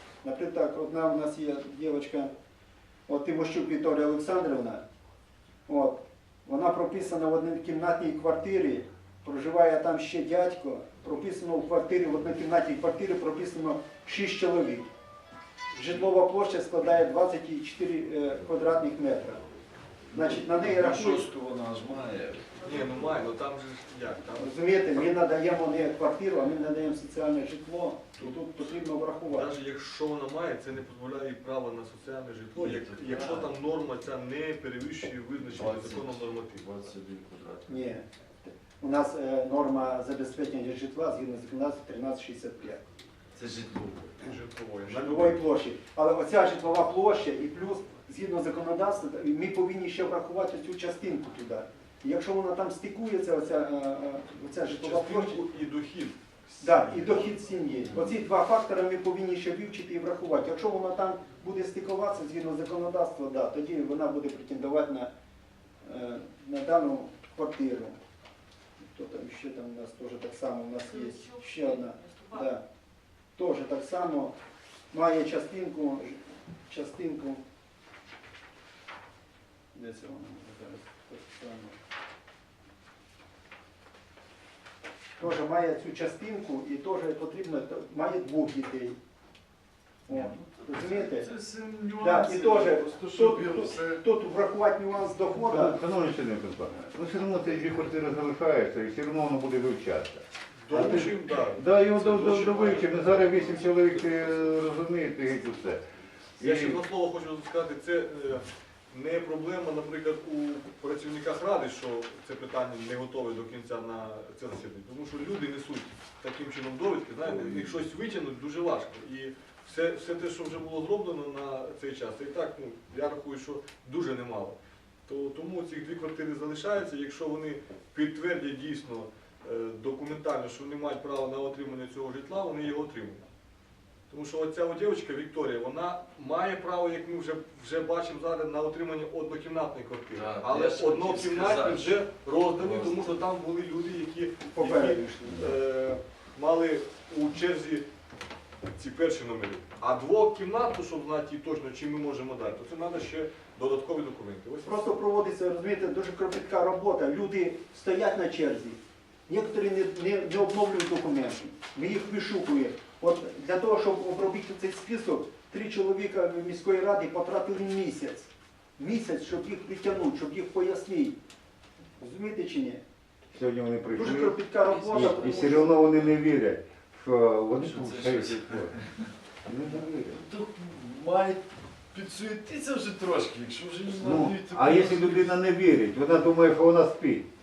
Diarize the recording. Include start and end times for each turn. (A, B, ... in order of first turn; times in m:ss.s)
0:00.2-0:02.3 A
0:03.1-0:04.8 A
0:05.6-0:14.9 A
0:15.7-0:19.4 A
0:20.1-0:21.3 A
0:20.1-0:23.0 B
0:22.6-0:24.5 C
0:24.4-0:29.5 A
0:29.3-0:36.7 C
0:32.5-0:33.5 B
0:35.4-0:37.9 B
0:37.7-0:42.8 A
0:43.3-0:44.3 B
0:44.2-0:45.4 C
0:44.9-0:55.4 A
0:54.7-0:57.2 C
0:56.6-1:05.1 A
1:05.8-1:08.0 A
1:08.8-1:12.6 A
1:13.3-1:14.4 A
1:14.9-1:17.4 A
1:19.7-1:21.7 A
1:25.2-1:29.0 A
1:30.1-1:31.3 A
1:30.1-1:34.0 B
1:31.9-1:35.8 A
1:35.5-1:45.8 D
1:40.6-1:41.6 C
1:41.9-1:44.2 B
1:42.2-1:42.8 C
1:46.4-1:46.8 D
1:46.4-2:13.2 C
2:14.1-2:27.8 C
2:20.1-2:23.1 B
2:24.5-2:25.3 A
2:28.8-2:34.9 C
2:34.6-2:51.2 A
2:52.0-2:52.8 A
2:53.3-2:58.7 D
2:53.9-2:56.0 A
2:54.9-2:55.5 B
2:57.5-2:58.7 B
2:59.4-3:00.2 D
3:00.0-3:05.4 B
3:04.0-3:07.3 D